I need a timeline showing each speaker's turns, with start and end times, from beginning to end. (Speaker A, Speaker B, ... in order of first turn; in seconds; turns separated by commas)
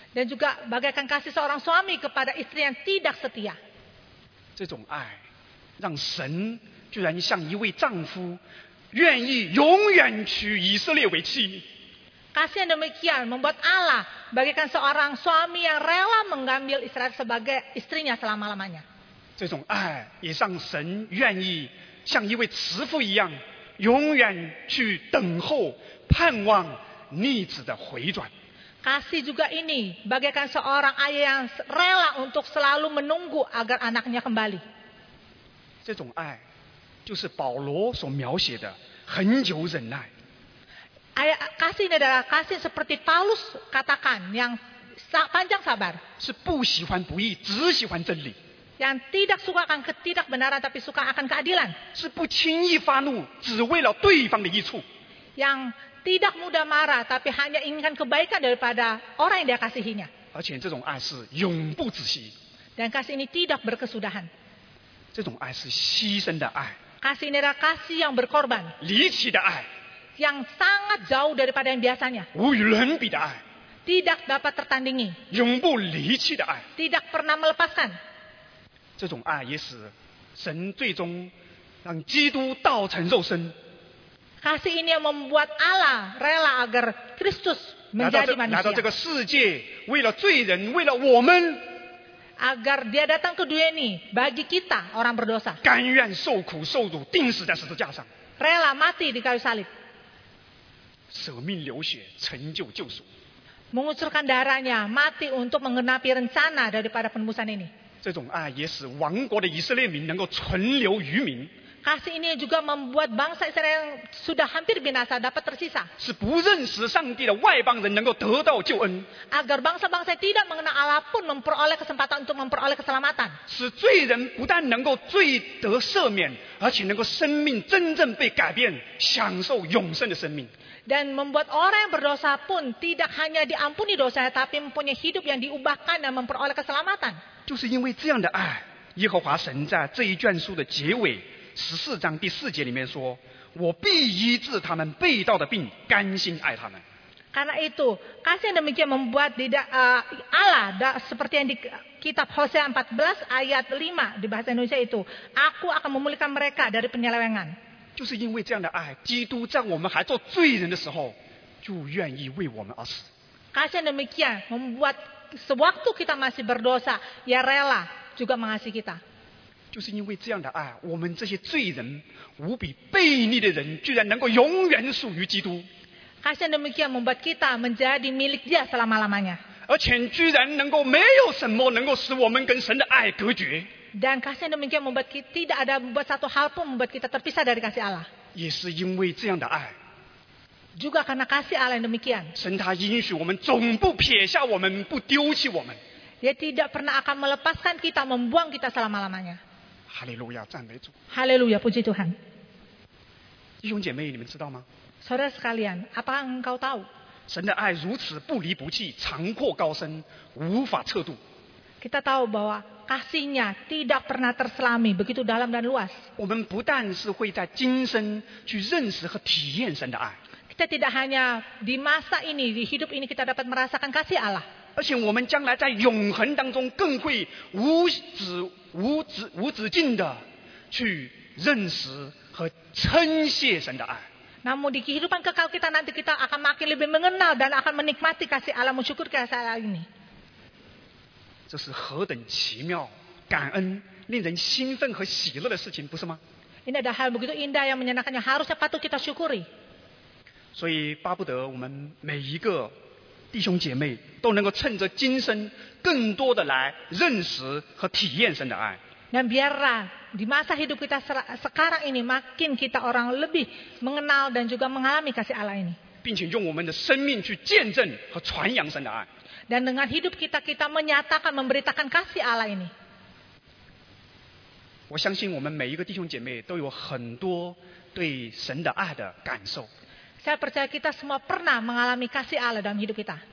Speaker A: 0.1-3.6, Speaker B: 4.6-5.2, Speaker B: 5.8-8.4, Speaker B: 8.9-11.7, Speaker A: 12.3-18.9, Speaker B: 19.4-28.3, Speaker A: 28.8-34.6, Speaker B: 35.9-36.4, Speaker B: 37.1-40.1, Speaker A: 41.2-46.0, Speaker B: 46.2-48.4, Speaker A: 48.8-51.8, Speaker B: 51.9-54.9, Speaker A: 55.4-60.1, Speaker B: 60.3-62.4, Speaker A: 62.8-64.3, Speaker B: 65.1-66.8, Speaker A: 67.0-68.8, Speaker B: 68.8-69.7, Speaker A: 70.2-72.3, Speaker B: 72.3-73.4, Speaker A: 73.9-75.2, Speaker B: 75.3-76.7, Speaker A: 76.8-78.0, Speaker B: 79.0-81.3, Speaker B: 81.8-83.5, Speaker A: 84.4-88.9, Speaker B: 88.0-91.7, Speaker A: 92.4-95.6, Speaker B: 95.6-98.1, Speaker A: 98.4-99.7, Speaker B: 101.1-103.1, Speaker A: 103.7-107.7, Speaker B: 108.0-111.5, Speaker A: 111.8-115.9, Speaker B: 116.0-119.1, Speaker A: 119.3-123.4, Speaker B: 123.5-130.5, Speaker A: 130.9-137.2, Speaker B: 137.5-146.8, Speaker A: 147.3-157.6, Speaker B: 158.0-163.1, Speaker A: 163.5-169.0, Speaker B: 169.7-175.7, Speaker A: 176.2-179.4, Speaker B: 179.7-183.7, Speaker A: 183.9-188.1, Speaker B: 188.3-189.8, Speaker A: 190.8-192.3, Speaker B: 192.3-195.8, Speaker A: 196.2-199.4, Speaker B: 199.9-200.9, Speaker A: 201.1-202.2, Speaker B: 203.6-204.7, Speaker A: 205.0-206.9, Speaker B: 207.3-211.2, Speaker A: 211.8-216.0, Speaker B: 216.2-220.2, Speaker A: 220.5-224.5, Speaker B: 224.8-234.1, Speaker A: 234.4-239.9, Speaker B: 241.5-246.2, Speaker A: 246.7-249.5, Speaker B: 250.6-252.7, Speaker B: 253.3-258.8, Speaker A: 259.1-265.8, Speaker B: 266.0-269.1, Speaker A: 269.5-272.7, Speaker B: 274.9-279.7, Speaker A: 280.2-283.2